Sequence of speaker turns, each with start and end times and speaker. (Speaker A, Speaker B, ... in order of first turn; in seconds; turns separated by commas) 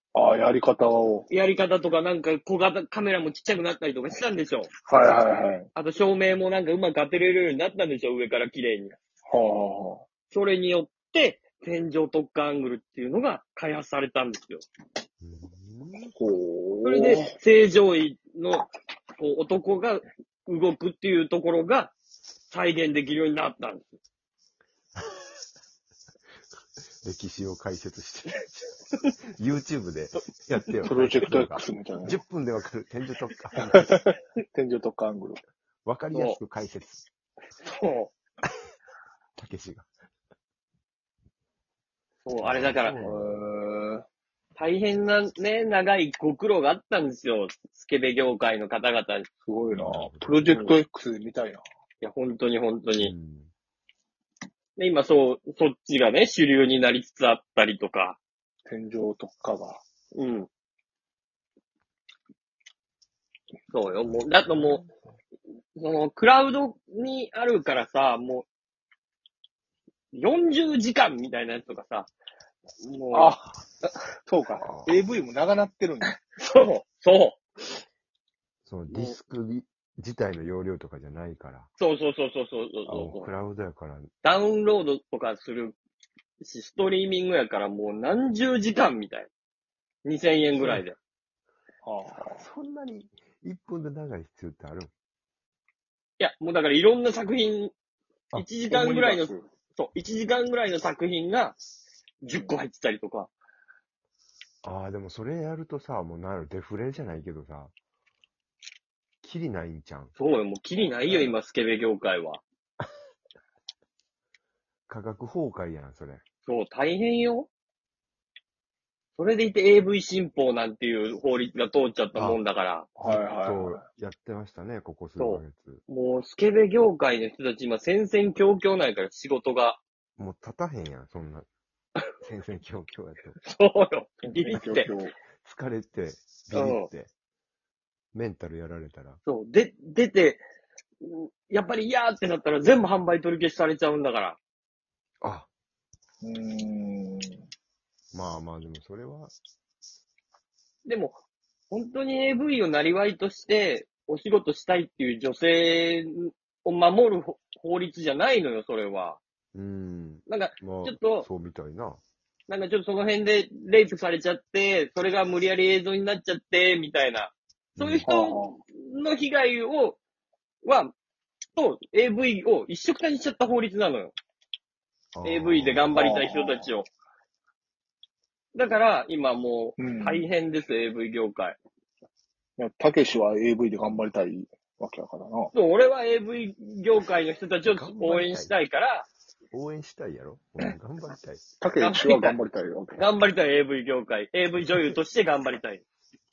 Speaker A: 0.1-1.3, Speaker B: 1.3-4.7, Speaker A: 4.9-5.7, Speaker B: 5.8-8.9, Speaker A: 9.3-10.1, Speaker B: 10.3-14.6, Speaker C: 15.2-16.1, Speaker A: 16.1-17.4, Speaker B: 16.8-18.7, Speaker B: 19.2-21.9, Speaker B: 22.5-24.0, Speaker C: 27.0-28.6, Speaker C: 29.2-34.0, Speaker A: 30.8-32.2, Speaker A: 33.7-35.4, Speaker C: 35.9-37.1, Speaker B: 36.1-36.4, Speaker B: 37.6-38.1, Speaker C: 39.4-39.9, Speaker B: 42.2-43.0, Speaker C: 42.4-43.4, Speaker A: 43.0-44.0, Speaker B: 44.6-49.3, Speaker A: 49.5-51.6, Speaker C: 49.7-50.6, Speaker B: 52.0-53.1, Speaker C: 53.0-53.5, Speaker B: 54.8-58.2, Speaker A: 58.7-59.8, Speaker B: 60.1-60.5, Speaker B: 63.7-64.8, Speaker C: 64.0-65.2, Speaker B: 65.8-68.5, Speaker B: 70.1-72.1, Speaker B: 72.8-74.0, Speaker A: 73.1-73.4, Speaker A: 74.3-76.2, Speaker C: 74.6-75.1, Speaker B: 76.0-77.4, Speaker C: 78.7-81.7, Speaker B: 78.9-79.2, Speaker B: 81.8-83.3, Speaker C: 82.9-84.1, Speaker B: 84.2-85.8, Speaker B: 86.4-89.3, Speaker B: 90.0-91.0, Speaker C: 90.5-90.8, Speaker A: 91.8-92.5, Speaker C: 92.2-94.9, Speaker B: 96.2-97.7, Speaker B: 98.3-101.6, Speaker A: 98.7-99.5, Speaker B: 102.2-103.3, Speaker A: 102.3-102.6, Speaker C: 104.6-107.7, Speaker C: 109.2-110.1, Speaker B: 110.2-112.4, Speaker C: 114.9-116.2, Speaker B: 116.5-117.5, Speaker B: 119.2-122.9, Speaker C: 122.2-122.4, Speaker A: 123.0-123.8, Speaker C: 123.0-125.8, Speaker B: 125.2-129.8, Speaker C: 130.2-131.5, Speaker C: 132.2-133.4, Speaker B: 133.4-134.9, Speaker A: 134.2-135.2, Speaker C: 135.4-137.1, Speaker B: 136.5-136.9, Speaker C: 138.1-139.2, Speaker B: 139.3-140.4, Speaker B: 141.0-144.4, Speaker C: 145.2-145.5, Speaker A: 146.2-147.4, Speaker C: 148.1-149.3, Speaker B: 150.9-151.2, Speaker B: 151.7-159.2, Speaker C: 159.5-162.0, Speaker B: 160.3-161.3, Speaker B: 162.5-170.0, Speaker C: 167.8-168.1, Speaker A: 168.1-168.6, Speaker B: 170.6-170.9, Speaker B: 171.6-174.1, Speaker C: 175.2-176.0, Speaker B: 175.2-176.9, Speaker A: 175.9-176.7, Speaker B: 178.5-181.6, Speaker A: 179.8-180.3, Speaker A: 182.6-185.5, Speaker B: 185.6-189.1, Speaker C: 187.7-188.6, Speaker C: 189.5-191.4, Speaker A: 191.6-193.0, Speaker B: 191.8-192.4, Speaker B: 193.0-195.8